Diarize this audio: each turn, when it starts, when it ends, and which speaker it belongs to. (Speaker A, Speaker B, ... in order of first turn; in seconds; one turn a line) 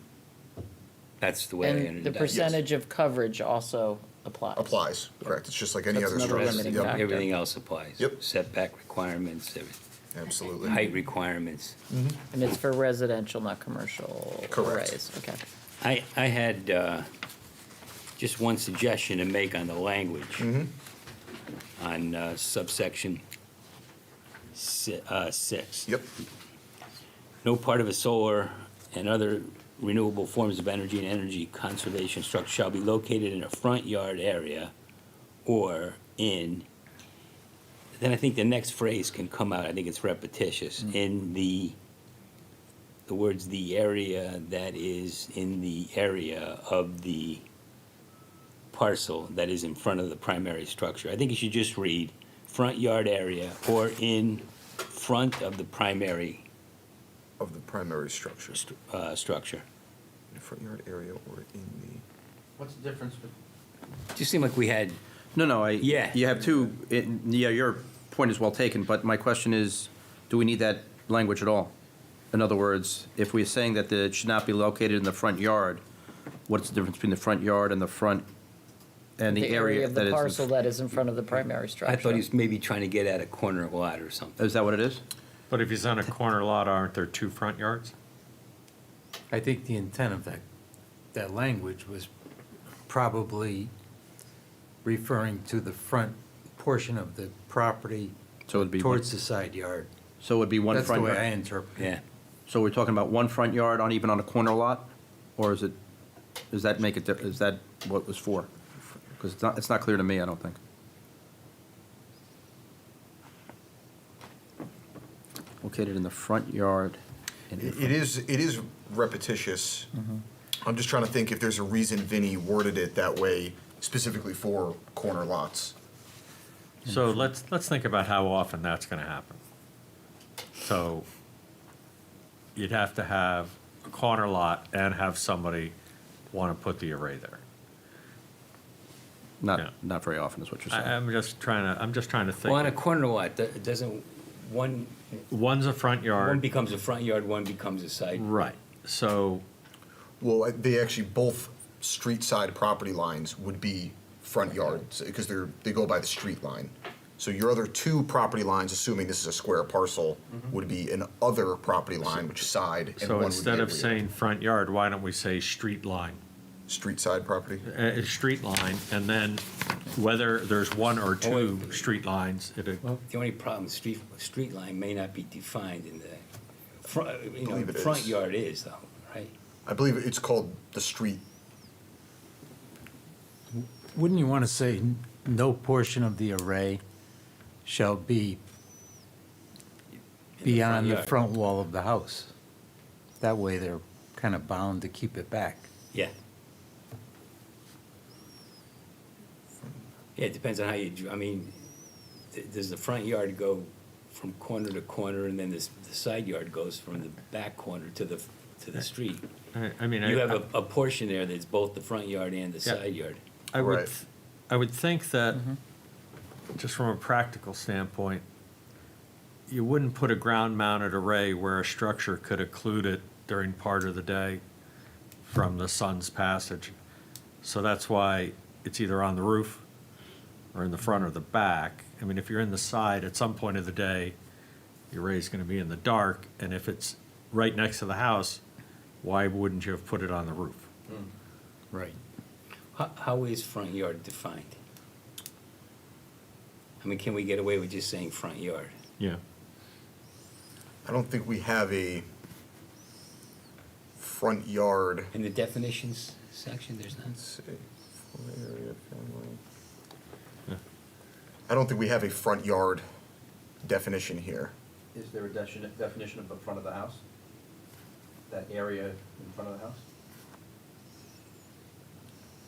Speaker A: 1.2-2.6
Speaker B: 1.6-4.8
Speaker C: 2.3-2.6
Speaker C: 4.6-7.0
Speaker B: 5.9-7.3
Speaker A: 6.3-9.8
Speaker C: 10.1-10.8
Speaker A: 10.6-11.8
Speaker C: 11.9-12.2
Speaker B: 12.3-15.4
Speaker C: 14.5-15.0
Speaker A: 15.8-17.1
Speaker A: 18.2-20.5
Speaker C: 20.4-20.7
Speaker A: 21.8-23.2
Speaker A: 24.5-25.9
Speaker A: 27.4-34.7
Speaker A: 35.5-36.7
Speaker A: 38.0-41.8
Speaker A: 43.1-47.4
Speaker A: 48.7-56.5
Speaker C: 57.4-58.6
Speaker A: 58.5-59.6
Speaker C: 60.3-62.0
Speaker D: 62.6-63.3
Speaker A: 64.1-65.0
Speaker D: 65.3-71.7
Speaker A: 65.8-66.2
Speaker D: 72.3-75.8
Speaker D: 76.5-78.3
Speaker D: 79.2-80.5
Speaker B: 79.3-82.2
Speaker A: 81.3-84.4
Speaker D: 84.4-85.0
Speaker E: 85.5-87.9
Speaker F: 89.3-90.4
Speaker F: 91.1-92.1
Speaker F: 92.9-93.7
Speaker F: 94.8-99.9
Speaker D: 98.5-99.1
Speaker D: 100.2-101.3
Speaker F: 100.7-101.8
Speaker D: 102.5-105.8
Speaker D: 106.5-108.5
Speaker D: 109.2-110.6
Speaker D: 115.6-117.0
Speaker D: 117.5-117.9
Speaker C: 117.6-119.9
Speaker C: 120.6-125.8
Speaker E: 126.8-129.4
Speaker E: 130.6-131.1
Speaker E: 132.6-135.8
Speaker E: 136.3-137.4
Speaker D: 139.4-140.9
Speaker E: 140.7-142.8
Speaker A: 142.4-145.2
Speaker E: 145.3-146.4
Speaker A: 146.2-148.3
Speaker E: 148.2-149.4
Speaker C: 150.2-164.0
Speaker E: 163.0-166.2
Speaker C: 166.7-167.6
Speaker E: 167.6-173.0
Speaker A: 171.2-171.9
Speaker A: 173.1-176.2
Speaker A: 176.8-179.3
Speaker C: 177.4-178.2
Speaker C: 179.7-181.2
Speaker F: 183.9-186.8
Speaker F: 187.7-188.4
Speaker A: 190.4-191.2
Speaker F: 190.5-192.3
Speaker F: 193.2-195.7
Speaker A: 200.2-201.6
Speaker A: 202.3-209.3
Speaker E: 209.5-210.4
Speaker A: 210.0-213.2
Speaker E: 213.5-215.5
Speaker C: 213.6-213.9
Speaker E: 216.6-218.2
Speaker E: 219.5-224.4
Speaker E: 225.2-226.7
Speaker E: 227.4-229.6
Speaker E: 230.5-234.2
Speaker E: 234.9-238.4
Speaker E: 239.0-240.7
Speaker A: 242.7-244.6
Speaker A: 246.8-248.8
Speaker C: 250.8-252.1
Speaker C: 254.0-255.1
Speaker A: 255.1-257.2
Speaker C: 257.1-259.4
Speaker C: 261.5-262.9
Speaker C: 263.6-264.5
Speaker D: 264.9-267.0
Speaker D: 268.3-269.8